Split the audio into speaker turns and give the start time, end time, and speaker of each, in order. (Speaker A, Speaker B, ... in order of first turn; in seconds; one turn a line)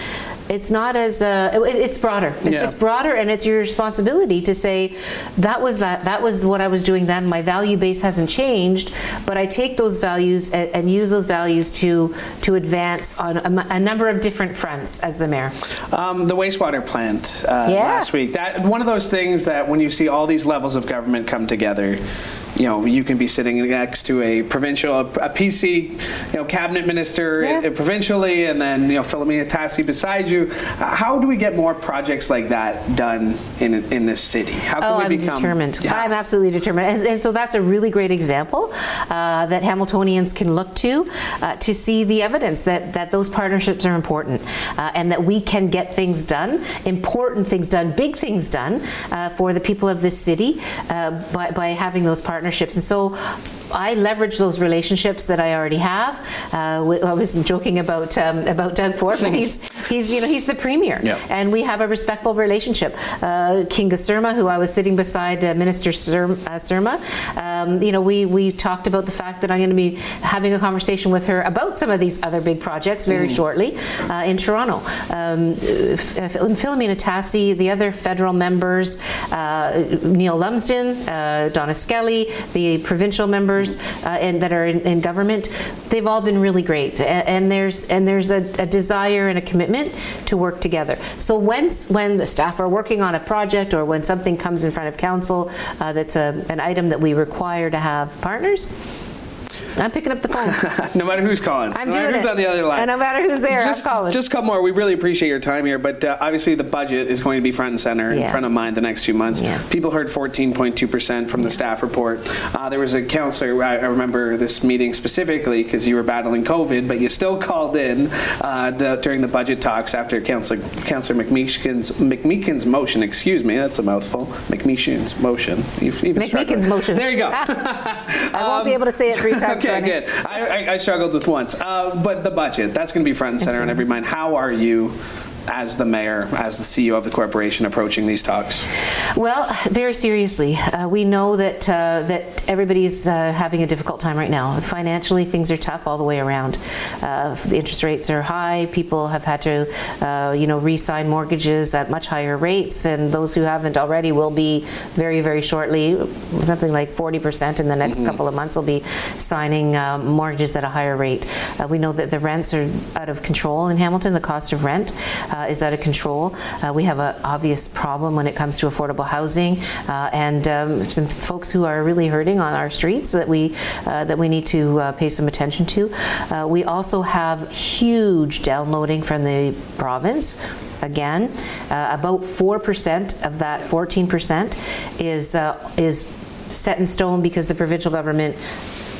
Speaker A: 0.5-15.5
Speaker B: 2.5-2.7
Speaker B: 15.9-22.0
Speaker A: 17.7-18.1
Speaker B: 22.6-36.1
Speaker A: 34.8-98.7
Speaker A: 99.8-100.6
Speaker B: 100.4-102.9
Speaker A: 101.7-104.2
Speaker B: 103.5-134.9
Speaker A: 108.1-108.4
Speaker A: 109.4-109.6
Speaker A: 126.2-127.6
Speaker A: 128.3-130.0
Speaker B: 135.5-138.7
Speaker A: 139.1-188.4